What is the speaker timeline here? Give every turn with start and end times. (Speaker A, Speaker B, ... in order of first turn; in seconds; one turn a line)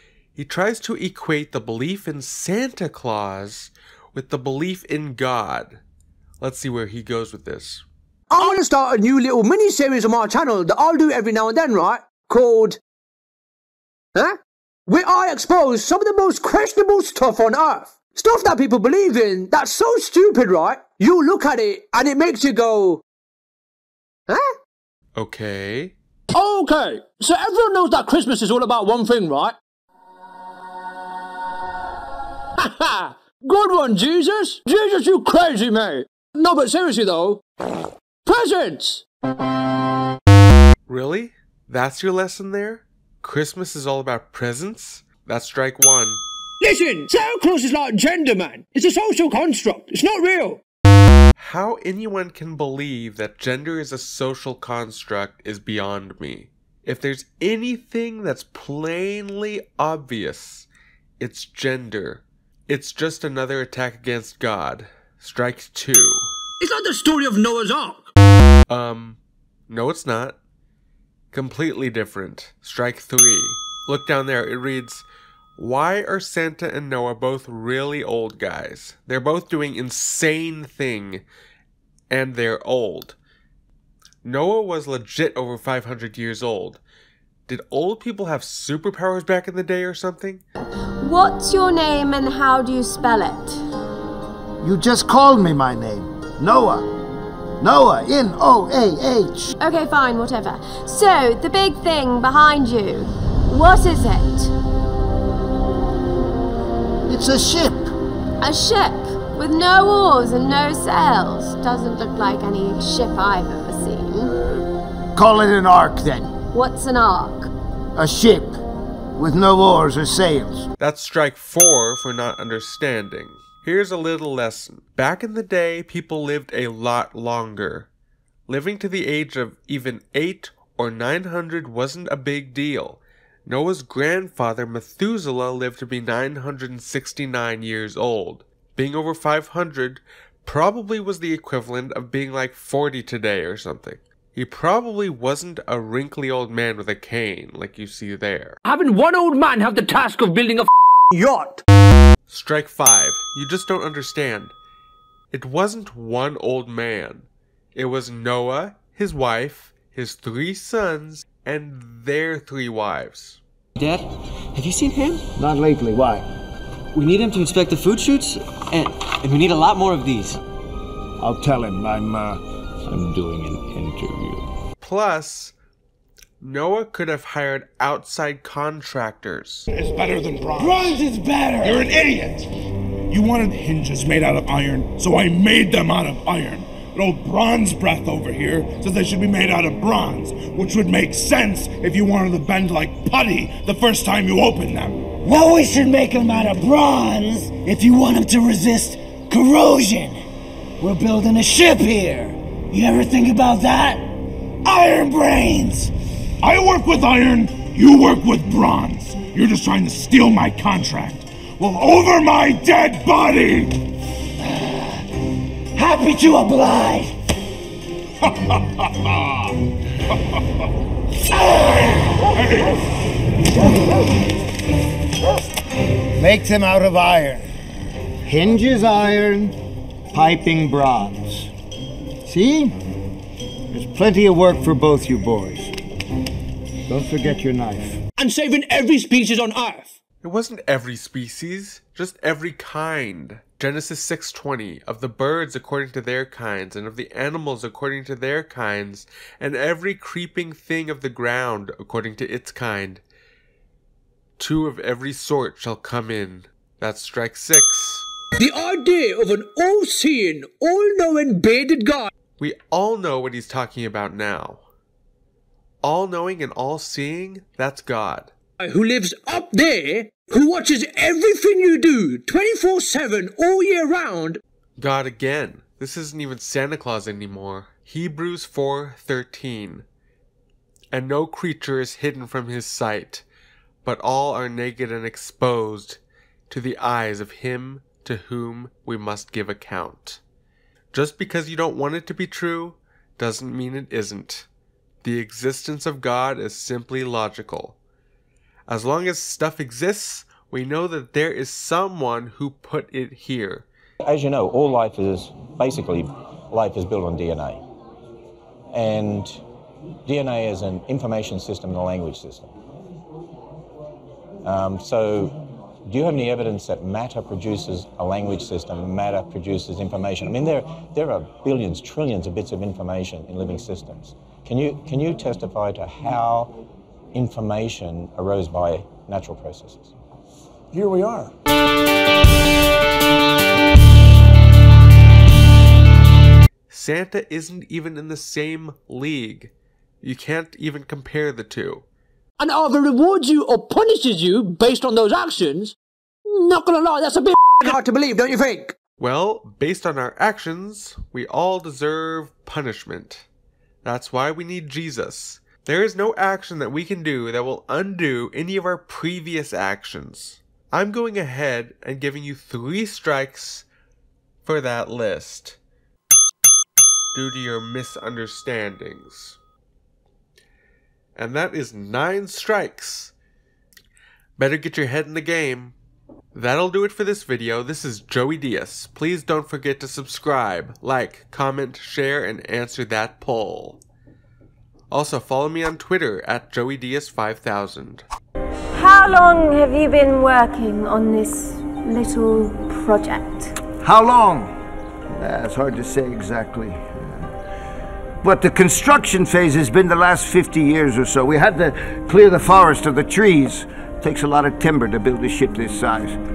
Speaker A: 0.3-5.8
Speaker A: 6.4-7.8
Speaker B: 8.3-12.8
Speaker B: 14.2-23.0
Speaker A: 25.2-25.9
Speaker B: 26.3-29.6
Speaker B: 32.6-37.4
Speaker B: 38.2-39.0
Speaker A: 40.9-46.2
Speaker B: 46.6-50.6
Speaker A: 51.4-60.7
Speaker A: 61.2-66.3
Speaker B: 66.6-68.1
Speaker A: 68.7-70.4
Speaker A: 71.3-75.1
Speaker A: 75.6-81.2
Speaker A: 82.1-83.2
Speaker A: 84.2-86.8
Speaker A: 87.5-90.4
Speaker C: 91.0-93.6
Speaker D: 94.6-96.9
Speaker D: 97.6-99.5
Speaker C: 99.6-104.5
Speaker D: 107.1-107.9
Speaker C: 108.4-114.3
Speaker D: 115.1-116.3
Speaker C: 116.5-117.5
Speaker D: 118.0-118.6
Speaker D: 119.2-120.7
Speaker A: 120.8-127.9
Speaker A: 128.5-148.6
Speaker B: 148.7-151.6
Speaker A: 152.3-154.5
Speaker A: 155.3-163.4
Speaker E: 163.8-165.2
Speaker D: 165.4-166.2
Speaker E: 166.9-170.4
Speaker D: 171.2-172.4
Speaker D: 172.9-174.3
Speaker A: 174.8-175.6
Speaker A: 176.4-179.7
Speaker F: 179.7-181.1
Speaker G: 180.6-181.6
Speaker F: 181.6-182.5
Speaker F: 183.1-195.2
Speaker G: 195.3-200.2
Speaker G: 200.8-204.1
Speaker G: 204.6-205.9
Speaker F: 206.4-213.8
Speaker G: 215.8-217.1
Speaker F: 221.7-222.8
Speaker D: 226.2-227.4
Speaker D: 228.2-229.6
Speaker D: 230.1-231.5
Speaker D: 232.2-232.8
Speaker D: 233.7-235.7
Speaker D: 236.9-238.0
Speaker B: 238.2-240.0
Speaker A: 240.2-253.0
Speaker A: 254.4-258.1
Speaker B: 258.4-262.1
Speaker A: 262.4-264.6
Speaker A: 265.8-268.3
Speaker B: 268.6-274.4
Speaker A: 274.8-279.9
Speaker A: 280.9-283.2
Speaker A: 283.8-290.2
Speaker A: 290.9-294.5
Speaker A: 295.0-297.8
Speaker A: 298.7-303.7
Speaker H: 304.0-307.6
Speaker H: 308.7-309.4
Speaker H: 310.1-312.5
Speaker H: 314.4-326.6
Speaker H: 327.1-329.9
Speaker F: 330.7-331.3
Speaker A: 336.7-341.8
Speaker B: 342.4-345.8
Speaker B: 346.3-348.8
Speaker A: 349.0-353.3
Speaker A: 353.8-363.7
Speaker A: 364.4-365.6
Speaker A: 367.1-369.4
Speaker A: 371.2-373.1
Speaker A: 374.4-375.8
Speaker A: 376.3-383.8
Speaker A: 384.9-388.0
Speaker C: 388.7-393.5
Speaker D: 393.8-394.6
Speaker D: 395.1-397.3
Speaker D: 398.2-406.2